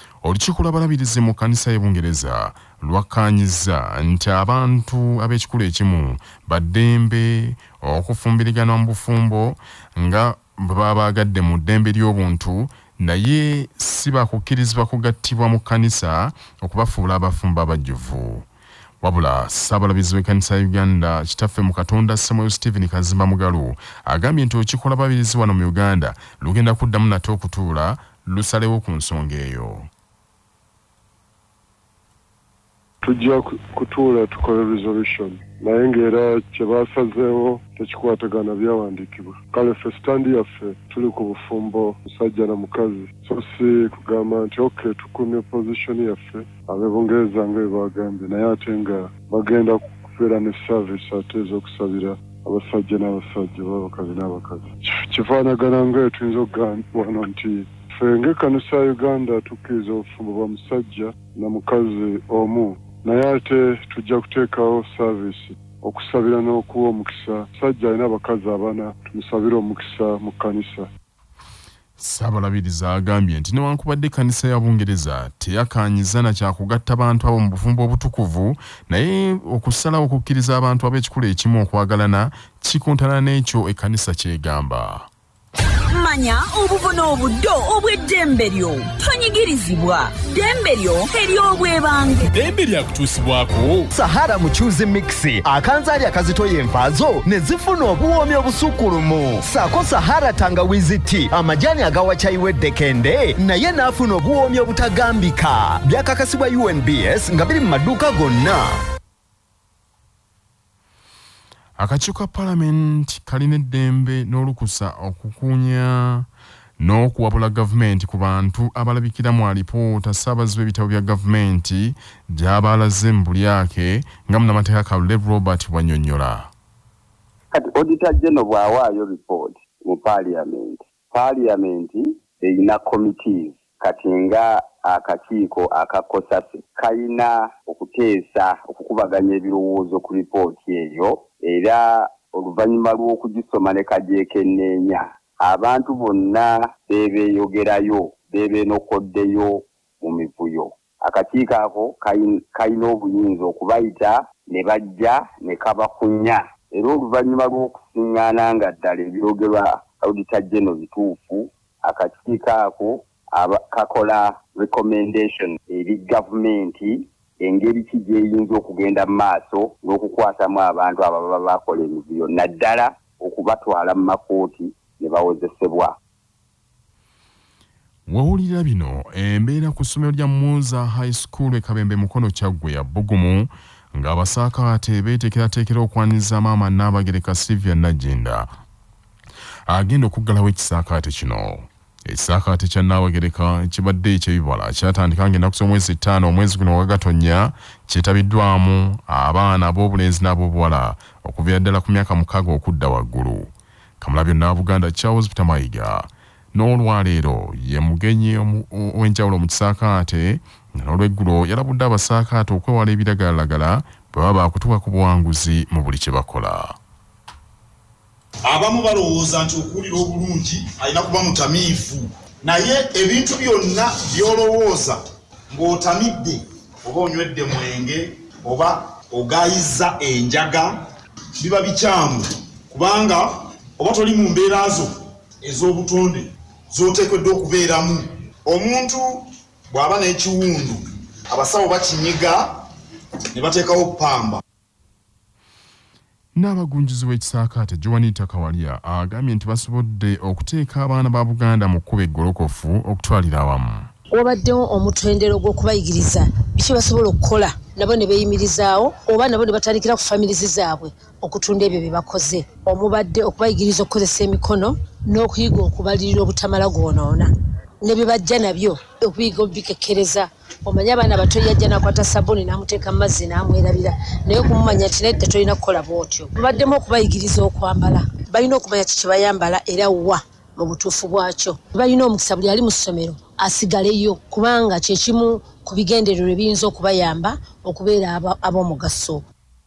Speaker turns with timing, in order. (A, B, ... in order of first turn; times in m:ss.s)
0:00.2-0:18.4 A
0:19.0-0:29.9 A
0:33.0-1:10.9 B
1:12.0-1:25.1 A
1:25.9-1:32.5 C
1:33.9-1:48.8 D
1:51.8-1:56.3 A
1:56.8-2:06.5 A
2:07.5-2:56.0 E
2:58.1-3:08.5 A
3:09.7-3:36.8 A
3:38.4-3:45.0 F
3:45.5-3:50.7 F
3:51.4-3:53.3 F
3:53.8-3:54.9 F
3:55.4-4:02.6 F
4:03.3-4:04.4 F
4:06.4-4:13.9 A
4:14.1-4:27.3 G
4:27.8-4:49.2 G